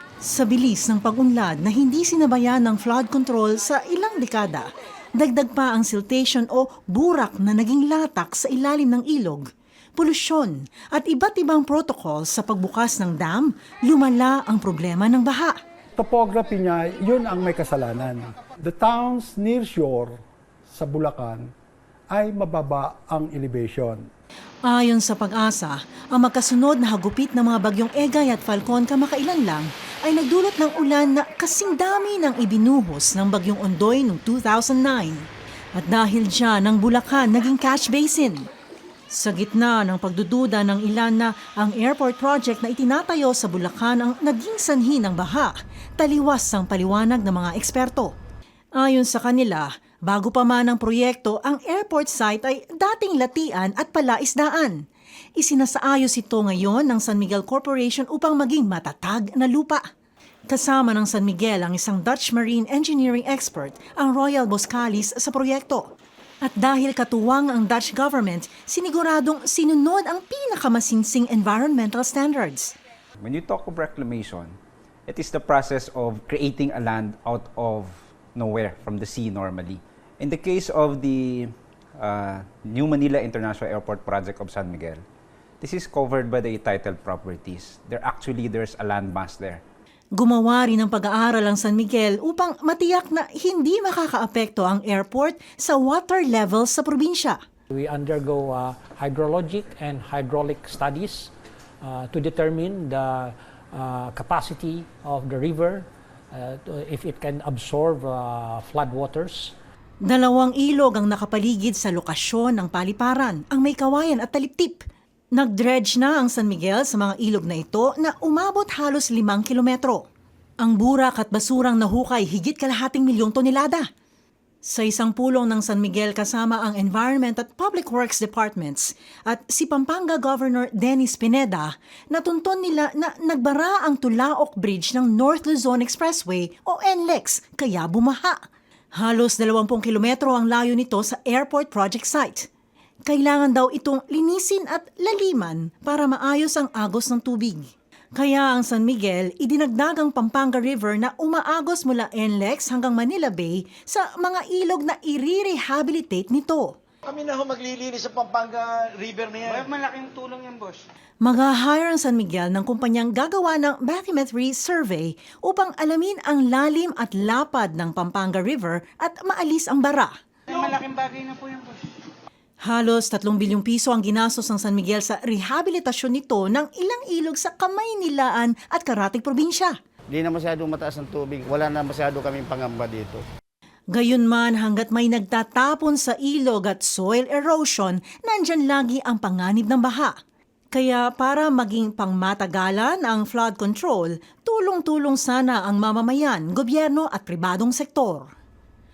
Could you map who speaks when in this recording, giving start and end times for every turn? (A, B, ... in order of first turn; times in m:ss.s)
0:00.2-0:15.6 A
0:16.0-0:21.5 B
0:22.1-0:24.1 B
0:24.7-0:38.5 A
0:39.1-0:48.2 A
0:48.8-0:54.8 A
0:55.4-0:59.8 A
1:00.5-1:05.9 A
1:06.4-1:12.8 A
1:13.2-1:25.0 C
1:25.6-1:29.6 C
1:30.2-1:37.4 A
1:37.7-1:49.5 D
1:50.0-2:00.1 A
2:00.6-2:03.9 A
2:04.6-2:22.5 A
2:23.1-2:36.8 A
2:37.0-2:39.7 E
2:39.5-2:40.8 F
2:41.2-2:50.1 A
2:51.0-2:51.7 F
2:52.6-2:59.8 A
3:00.1-3:03.2 G
3:03.9-3:10.2 A
3:10.7-3:18.3 A